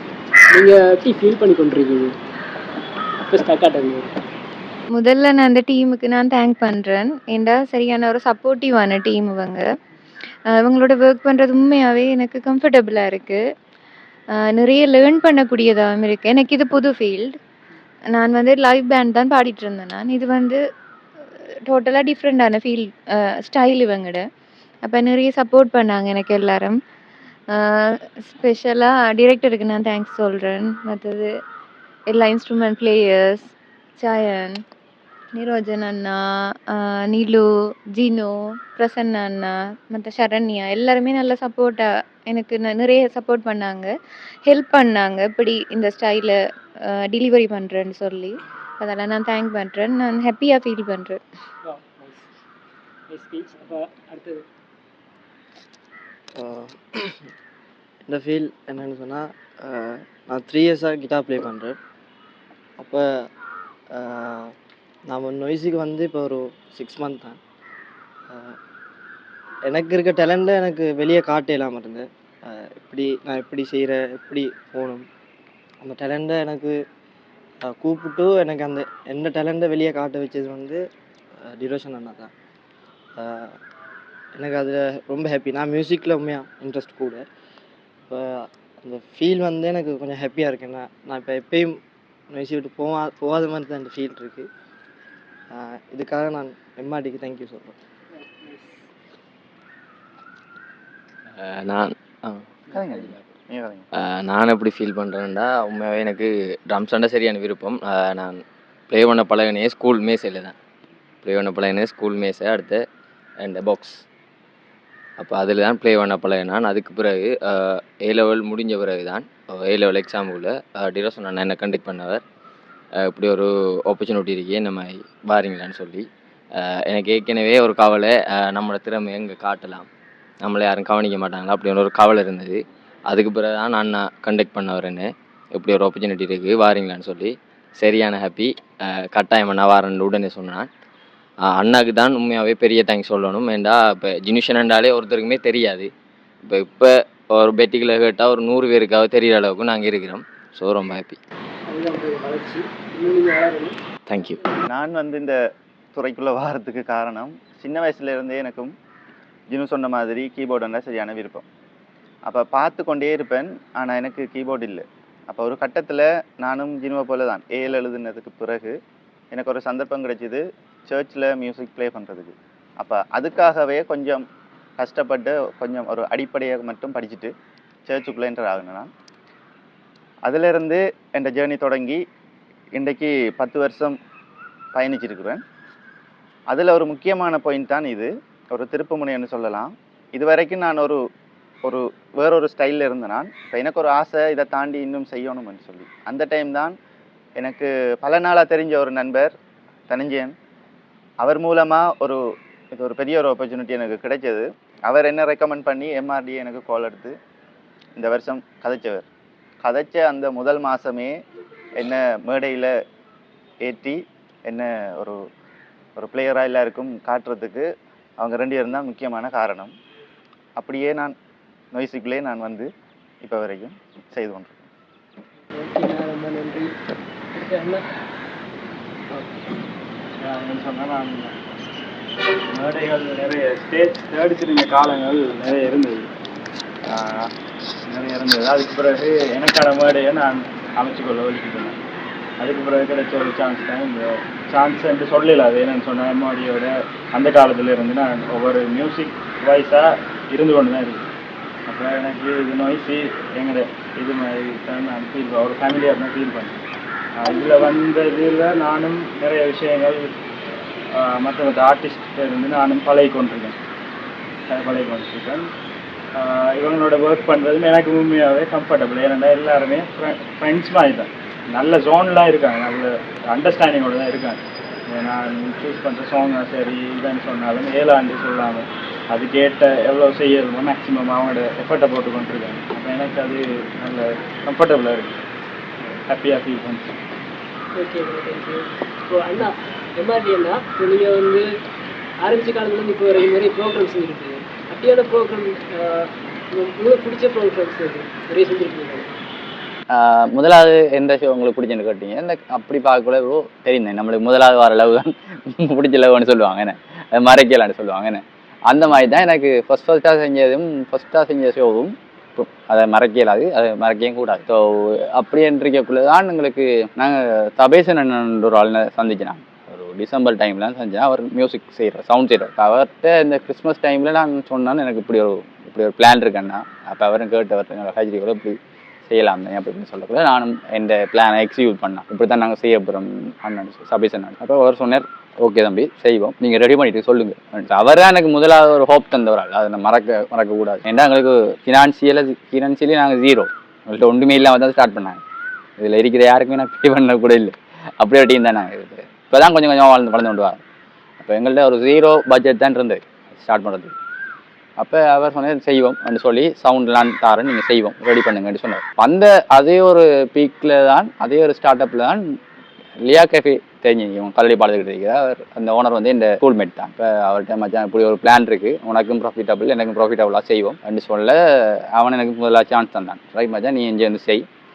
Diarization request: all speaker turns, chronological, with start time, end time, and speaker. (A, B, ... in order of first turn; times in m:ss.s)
0:00.5-0:02.2 A
0:03.2-0:04.1 A
0:04.9-0:09.7 B
0:10.5-0:13.4 B
0:14.3-0:17.4 B
0:18.1-0:20.6 B
0:21.3-0:24.2 B
0:24.8-0:26.8 B
0:27.5-0:31.3 B
0:32.1-0:34.6 B
0:35.4-0:43.9 B
0:44.4-0:51.2 B
0:51.7-0:52.2 A
0:53.1-0:54.4 A
0:56.4-0:57.2 C
0:58.1-1:01.8 C
1:02.8-1:03.3 C
1:03.9-1:04.5 C
1:05.1-1:07.4 C
1:08.3-1:08.6 C
1:09.6-1:15.0 C
1:15.8-1:16.8 C
1:17.6-1:20.8 C
1:21.4-1:22.3 C
1:23.2-1:23.6 C
1:24.4-1:27.2 C
1:28.1-1:31.8 C
1:32.3-1:34.5 C
1:35.5-1:37.8 C
1:38.4-1:38.8 A
1:41.4-1:42.4 D
1:42.7-1:43.8 E
1:44.0-1:50.6 D
1:51.2-1:52.8 D
1:53.4-1:54.0 D
1:55.2-2:02.2 D
2:03.0-2:06.1 D
2:06.6-2:09.9 D
2:10.4-2:20.7 D
2:21.5-2:25.9 D
2:26.4-2:31.2 D
2:31.7-2:33.8 A
2:34.1-2:34.4 D
2:34.7-2:35.4 E
2:36.0-2:38.7 E
2:39.5-2:41.5 E
2:42.2-2:48.7 E
2:49.3-2:54.2 E
2:54.8-2:57.3 E
2:57.9-2:58.9 E
3:00.2-3:02.0 E
3:02.8-3:04.0 E
3:04.8-3:05.4 E
3:06.5-3:11.0 E
3:11.6-3:16.7 E
3:17.4-3:19.3 E
3:19.9-3:20.3 E
3:21.2-3:22.2 E
3:22.7-3:27.1 E
3:28.0-3:29.1 E
3:29.6-3:31.1 E
3:31.8-3:32.7 E
3:33.6-3:35.2 E
3:36.0-3:37.7 E
3:38.2-3:39.7 E
3:40.6-3:41.2 E
3:41.7-3:42.7 E
3:43.2-3:44.7 E
3:45.6-3:46.7 A
3:47.4-3:47.8 A
3:50.2-3:51.3 F
3:52.5-3:56.1 F
3:56.9-3:57.2 F
3:57.9-4:01.7 F
4:02.4-4:11.0 F
4:11.7-4:16.6 F
4:17.2-4:20.0 F
4:21.0-4:23.6 F
4:24.5-4:25.5 F
4:26.2-4:34.4 F
4:34.9-4:45.1 F
4:46.1-4:46.9 F
4:47.8-4:51.4 A
4:52.2-4:59.1 A
4:59.9-5:28.6 G
5:29.1-5:45.2 G
5:45.8-5:50.6 G
5:51.2-5:53.9 G
5:54.8-6:02.2 G
6:03.0-6:14.4 G